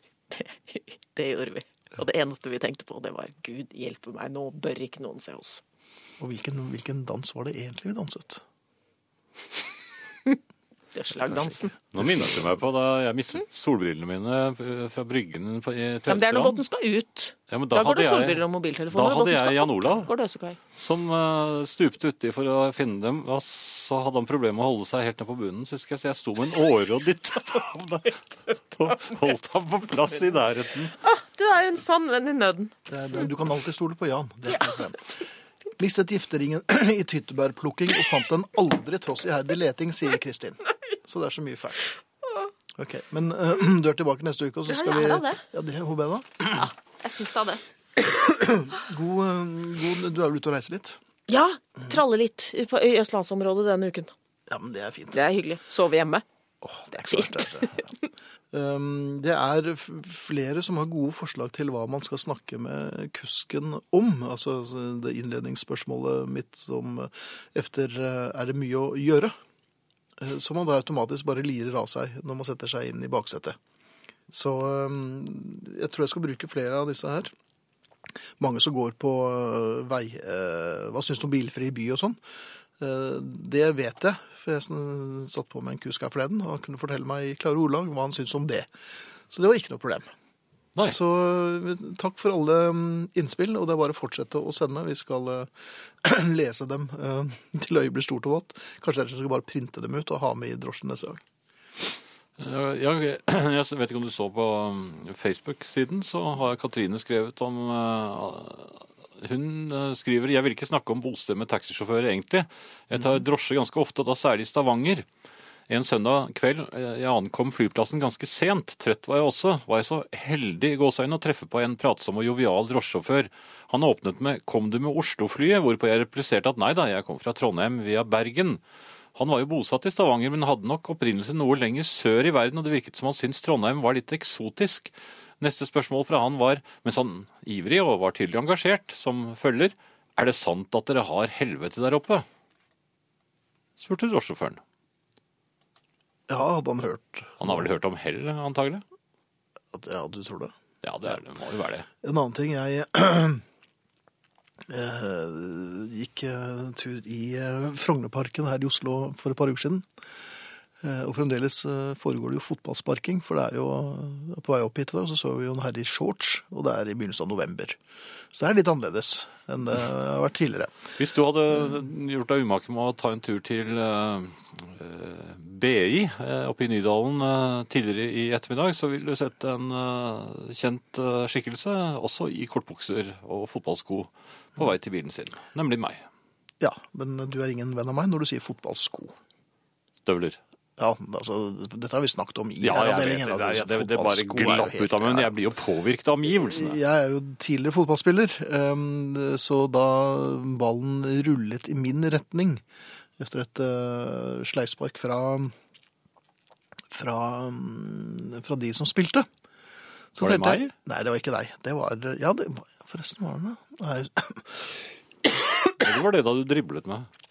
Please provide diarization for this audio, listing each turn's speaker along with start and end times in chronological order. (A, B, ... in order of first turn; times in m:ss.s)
0:00.3-0:05.6 A
0:06.2-0:08.4 B
0:10.9-0:11.7 A
0:11.9-0:16.6 C
0:16.1-0:20.6 A
0:17.5-0:20.1 C
0:20.8-0:30.9 C
0:31.0-0:32.7 A
0:32.9-0:35.2 B
0:35.8-0:41.9 B
0:42.8-0:46.7 B
0:44.7-0:45.4 A
0:46.5-0:47.6 A
0:48.0-0:51.0 B
0:51.3-0:54.1 A
0:54.5-0:55.2 B
0:55.1-0:56.2 A
0:56.6-0:57.9 B
0:57.0-0:57.9 A
0:58.5-1:09.3 B
1:10.2-1:13.6 B
1:14.3-1:17.3 B
1:18.4-1:22.2 B
1:22.8-1:28.7 B
1:29.3-1:30.1 B
1:30.8-1:35.5 B
1:36.0-1:41.2 B
1:42.4-1:55.0 C
1:55.7-2:08.6 C
2:09.1-2:22.2 C
2:23.8-2:24.6 C
2:26.3-2:27.6 B
2:27.4-2:28.8 C
2:29.7-2:30.5 B
2:30.8-2:31.9 C
2:32.0-2:33.4 B
2:34.7-2:39.8 B
2:40.8-2:47.8 B
2:48.3-2:50.8 B
2:51.0-3:06.0 C
3:06.6-3:09.1 B
3:10.0-3:10.4 C
3:10.8-3:15.3 B
3:12.6-3:16.8 C
3:16.3-3:22.6 B
3:23.2-3:25.5 B
3:26.9-3:29.3 B
3:30.1-3:34.7 B
3:30.2-3:30.7 C
3:35.8-3:37.1 C